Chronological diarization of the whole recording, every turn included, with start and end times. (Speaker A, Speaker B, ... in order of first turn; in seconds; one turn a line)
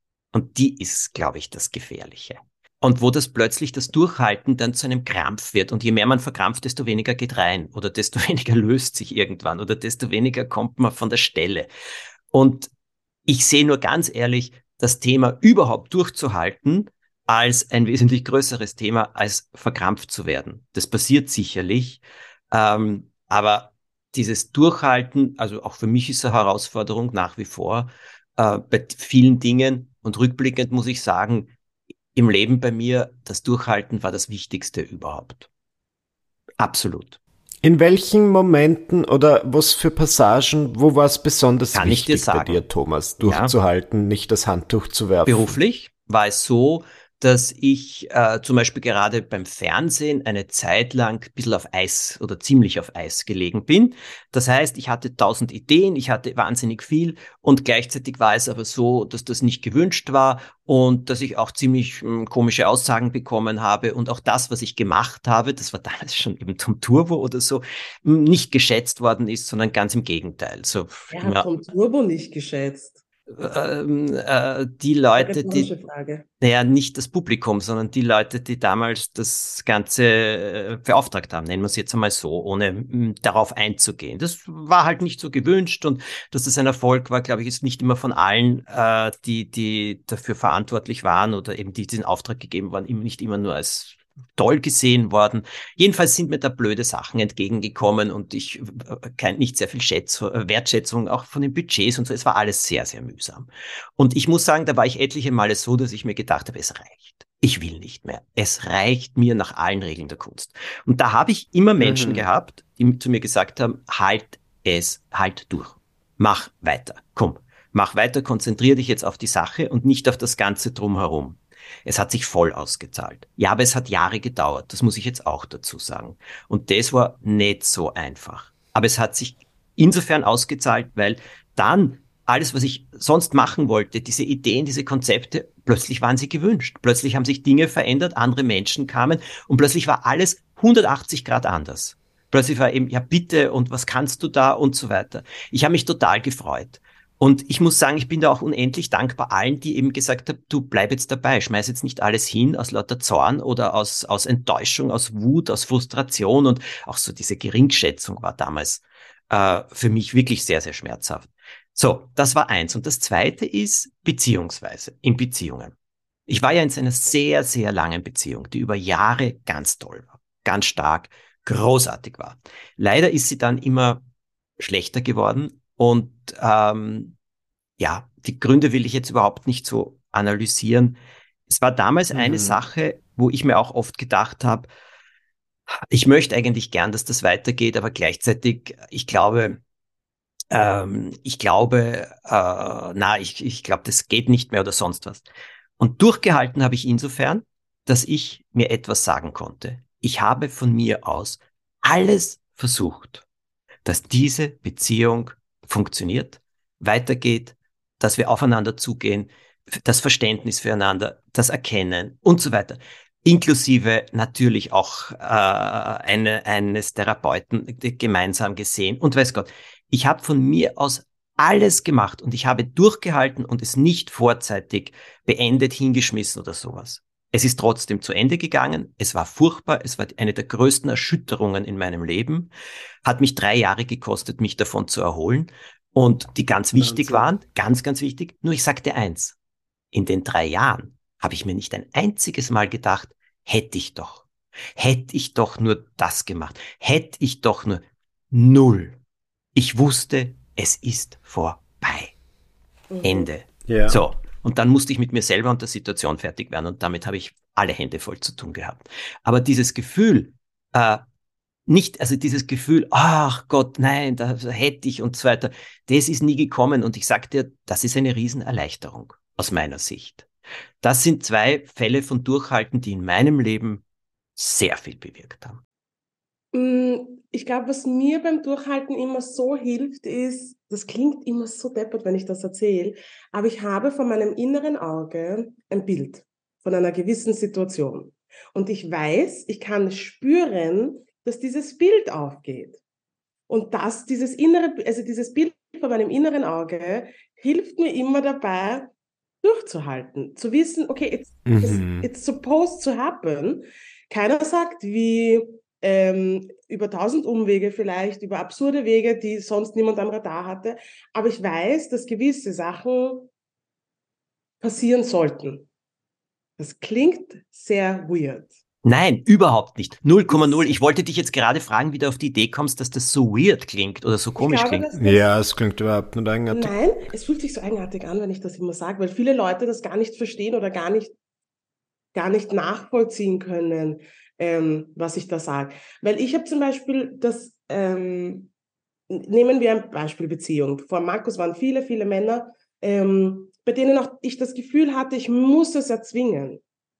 Speaker A: 0.3-11.7
Speaker A: 12.3-12.7
Speaker A: 13.2-31.5
Speaker A: 32.1-35.5
Speaker A: 36.6-37.2
Speaker B: 37.6-45.5
Speaker A: 41.7-42.6
Speaker A: 43.2-43.5
Speaker A: 45.2-71.5
Speaker C: 71.1-73.0
Speaker A: 73.3-75.7
Speaker C: 75.2-76.2
Speaker A: 76.4-165.7
Speaker B: 111.8-112.2
Speaker A: 166.3-174.0
Speaker A: 174.6-177.2
Speaker A: 177.8-184.7
Speaker B: 182.1-182.6
Speaker A: 185.9-189.6
Speaker A: 190.5-195.2
Speaker A: 195.8-203.2
Speaker A: 203.8-232.5
Speaker A: 233.1-239.3
Speaker B: 236.8-237.2
Speaker A: 239.9-249.0
Speaker A: 249.6-252.1
Speaker C: 252.9-253.3
Speaker A: 253.0-261.0
Speaker B: 253.7-254.0
Speaker A: 261.7-270.3
Speaker A: 270.8-273.8
Speaker A: 274.4-275.6
Speaker C: 276.5-292.8
Speaker C: 293.5-298.9
Speaker C: 299.4-313.3
Speaker B: 301.5-302.1
Speaker C: 314.6-315.7
Speaker C: 316.6-318.5
Speaker A: 318.8-324.9
Speaker C: 320.3-320.7
Speaker C: 324.4-325.2
Speaker B: 324.9-326.7
Speaker C: 326.5-331.1
Speaker C: 332.1-338.5
Speaker C: 339.1-346.6